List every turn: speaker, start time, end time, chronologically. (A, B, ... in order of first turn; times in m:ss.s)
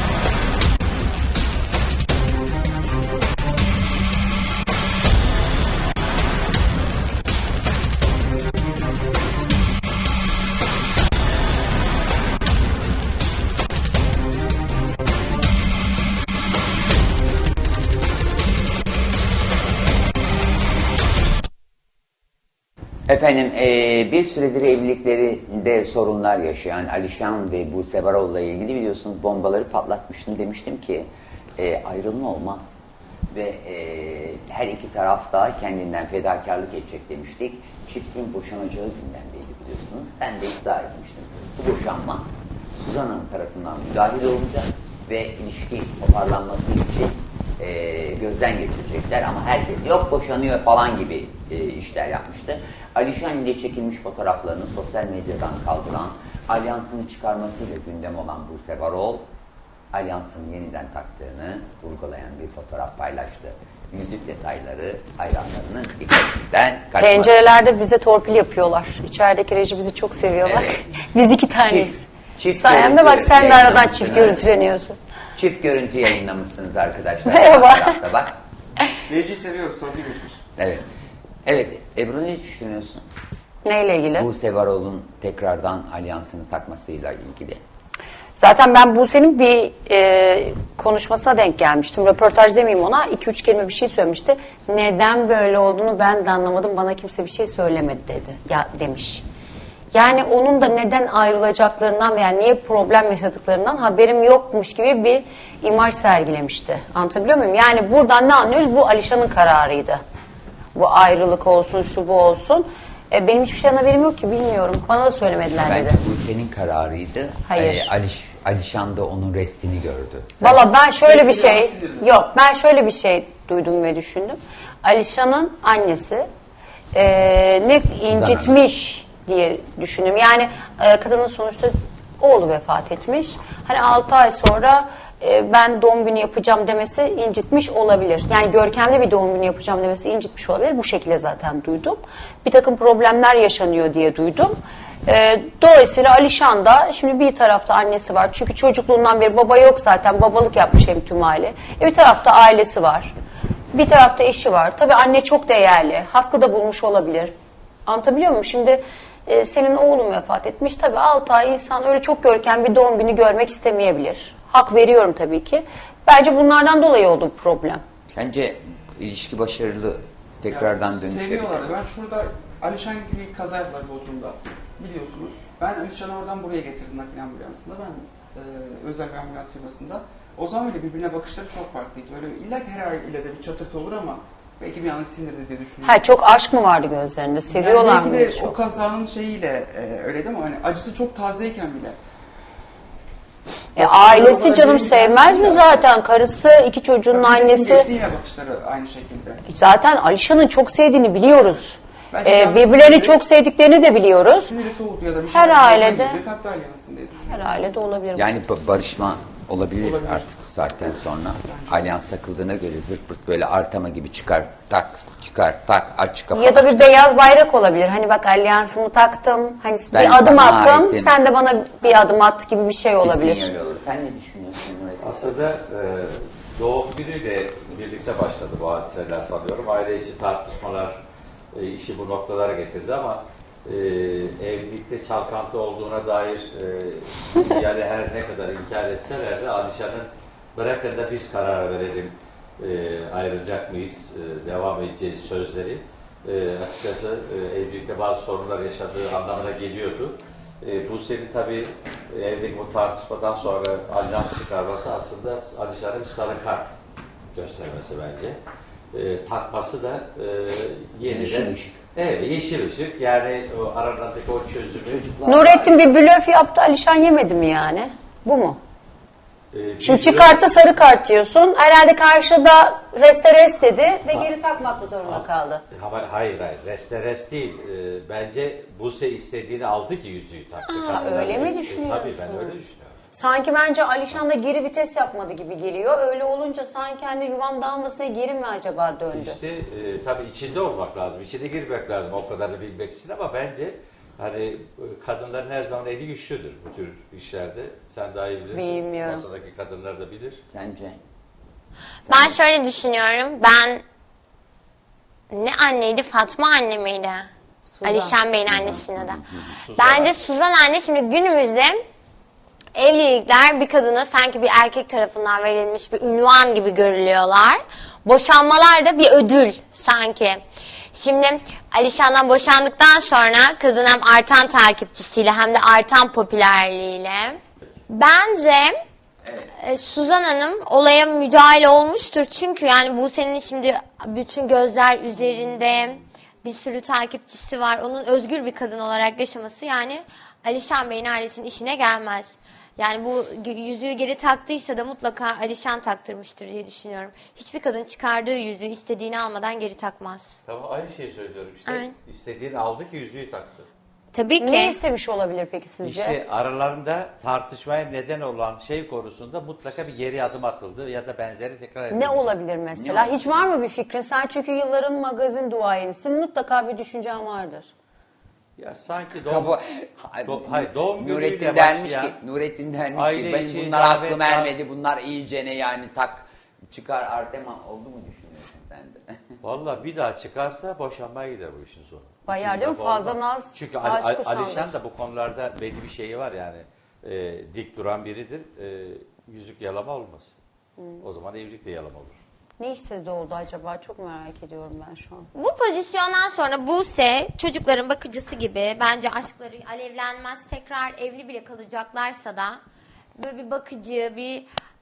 0:23.1-0:59.3 A
0:59.9-1:07.4 A
1:07.0-1:15.0 B
1:10.4-1:10.8 A
1:11.6-1:14.4 A
1:15.4-1:18.4 A
1:17.2-1:18.0 B
1:19.1-1:20.4 C
1:20.6-1:20.8 A
1:21.4-1:23.0 A
1:23.6-1:24.3 B
1:24.2-1:27.6 A
1:28.4-1:39.2 B
1:39.9-1:50.0 B
1:50.7-1:56.0 B
1:55.6-2:00.6 A
1:57.4-1:57.9 B
2:00.4-2:06.3 B
2:01.0-2:02.2 C
2:06.9-2:33.1 B
2:08.1-2:08.6 A
2:33.7-2:37.3 B
2:37.8-2:47.8 B
2:48.1-2:51.7 A
2:50.5-3:06.0 C
3:05.8-3:08.6 B
3:07.5-3:12.0 C
3:13.8-3:17.9 B
3:13.8-3:15.8 C
3:17.1-3:19.4 C
3:19.5-3:24.6 B
3:22.1-3:23.2 C
3:24.5-3:27.4 C
3:25.3-3:26.2 B
3:27.3-3:28.4 B
3:28.1-3:36.9 A
3:29.8-3:30.3 C
3:31.5-3:31.9 C
3:36.3-3:43.5 B
3:39.9-3:41.2 A
3:43.0-3:45.5 A
3:45.0-3:51.0 D
3:51.5-4:16.8 D
4:17.3-4:18.4 D
4:18.9-4:25.6 D
4:21.0-4:21.8 A
4:24.8-4:25.5 A
4:25.2-4:28.6 B
4:29.5-4:30.4 D
4:29.8-4:35.6 B
4:35.0-4:42.9 D
4:40.7-4:42.6 B
4:43.1-4:49.4 B
4:49.1-5:00.4 D
4:58.5-4:59.2 B
5:00.5-5:01.0 A
5:02.0-5:02.4 A
5:02.1-5:03.8 E
5:05.3-5:07.3 E
5:07.6-5:08.2 B
5:07.8-5:09.2 E
5:08.4-5:09.6 A
5:09.6-5:10.2 D
5:09.7-5:11.8 E
5:12.7-5:20.4 E
5:20.9-5:28.8 E
5:29.2-5:29.5 A
5:29.6-5:50.3 E
5:50.4-5:53.7 D
5:51.6-5:52.0 E
5:54.1-5:54.8 E
5:54.4-5:56.2 B
5:55.8-6:02.3 D
6:01.9-6:07.7 B
6:02.7-6:03.4 A
6:08.6-6:09.6 D
6:09.2-6:19.4 A
6:10.2-6:12.2 D
6:12.9-6:14.5 D
6:19.4-6:30.4 D
6:22.3-6:24.7 B
6:30.8-6:31.0 B
6:31.0-6:32.2 D
6:32.6-6:35.3 B
6:35.3-6:42.6 E
6:43.2-6:44.5 E